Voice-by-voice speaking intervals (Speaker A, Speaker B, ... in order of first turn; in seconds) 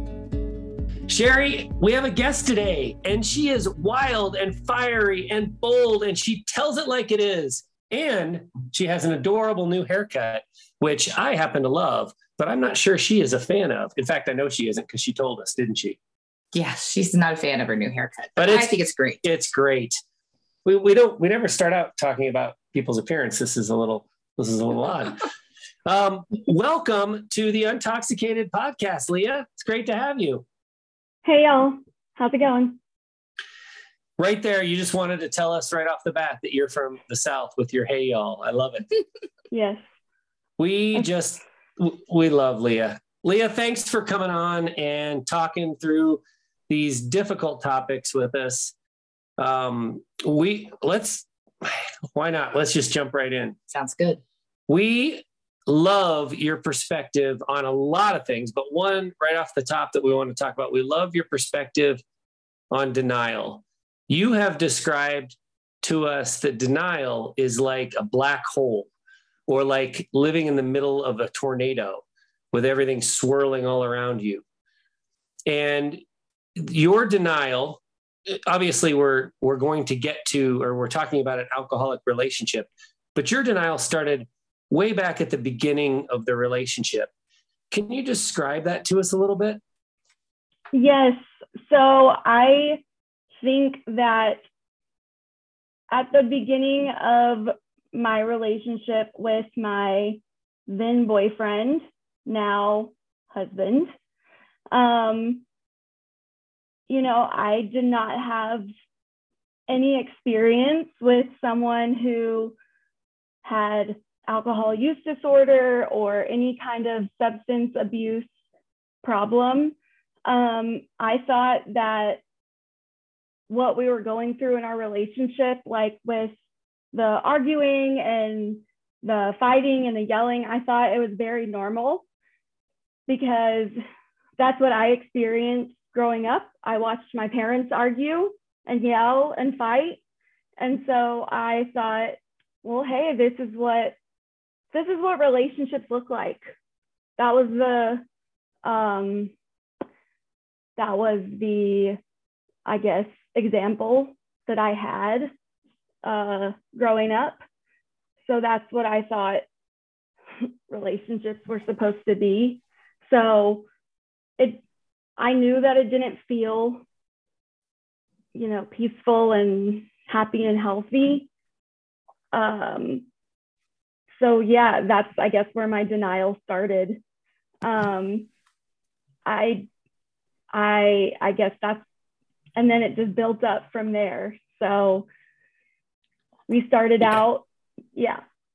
Speaker A: 1.1-16.0, 18.4-20.0, 20.6-25.3, 25.9-30.4, 34.2-38.9, 40.6-48.7, 49.4-53.6, 54.7-62.0, 62.7-68.9, 69.5-74.4, 75.5-76.0, 76.6-77.8, 78.5-87.1, 87.7-89.6
Speaker B: 16.5-19.2, 53.7-54.2
Speaker C: 31.2-32.8, 39.5-39.8, 90.7-92.8, 93.4-94.4, 95.9-103.9, 104.7-105.4, 106.9-108.7, 109.7-112.5, 113.4-118.3, 119.0-119.7, 120.3-122.2, 123.5-126.3, 126.9-132.0, 133.1-133.7, 134.4-140.0, 140.6-143.9, 144.7-146.4, 147.2-148.0, 148.6-149.3, 150.8-152.0, 152.7-155.3, 156.0-157.4, 158.2-159.4, 160.7-163.6, 165.2-166.8, 168.3-171.3, 172.3-173.0, 174.2-177.0, 177.6-178.3, 179.2-179.7, 180.5-181.8, 182.6-185.1, 186.5-188.2